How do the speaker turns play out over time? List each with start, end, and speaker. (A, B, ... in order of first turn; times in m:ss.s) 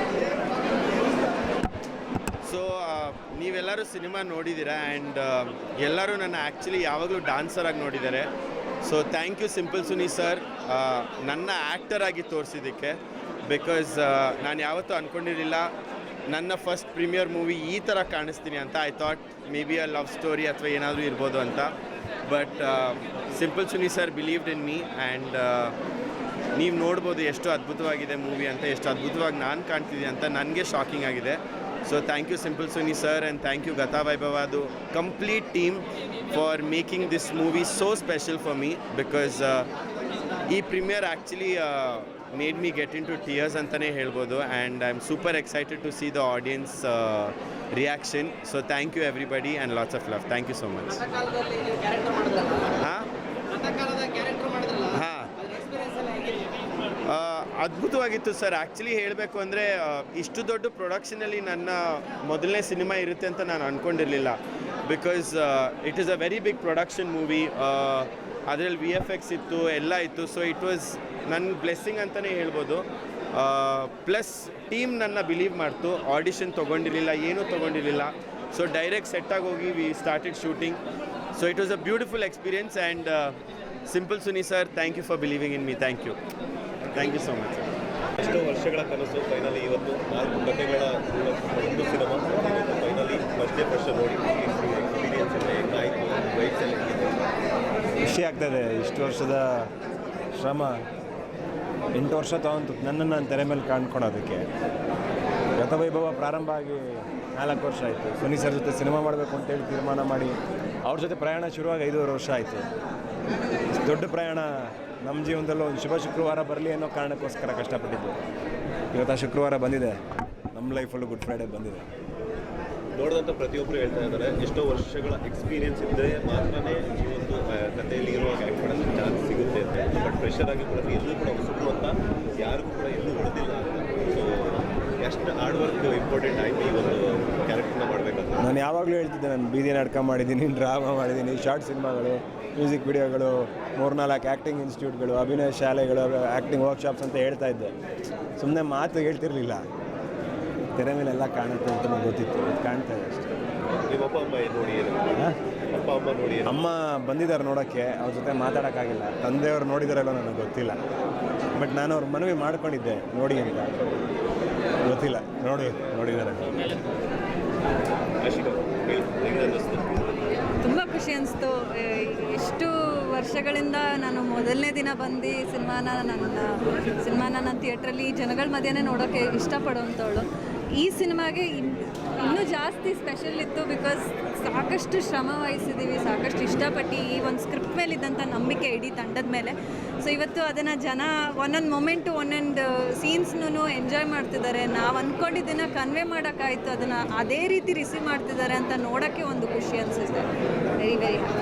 0:02.4-0:08.3 A
0:08.8-0:15.7 A
0:16.3-0:21.7 A
0:22.2-0:25.7 A
0:26.6-0:39.7 A
0:40.5-0:51.0 A
0:52.8-0:53.1 A
0:54.9-0:55.3 A
0:57.0-1:20.8 A
1:21.4-1:23.4 A
1:23.9-1:26.2 A
1:26.9-1:27.7 A
1:28.2-1:37.2 B
1:38.0-1:39.7 C
1:40.4-1:40.8 C
1:41.9-1:44.4 C
1:45.6-1:52.7 C
1:53.7-1:58.2 C
1:58.9-2:00.0 C
2:00.5-2:01.8 C
2:02.9-2:18.4 B
2:18.4-2:27.7 C
2:28.4-2:29.6 C
2:30.8-2:33.3 C
2:33.9-2:35.1 B
2:35.7-2:36.6 B
2:36.4-2:40.8 C
2:41.6-2:43.8 C
2:44.8-2:46.6 C
2:48.2-2:50.3 B
2:50.6-3:00.2 D
3:00.8-3:20.3 D
3:20.8-3:21.3 D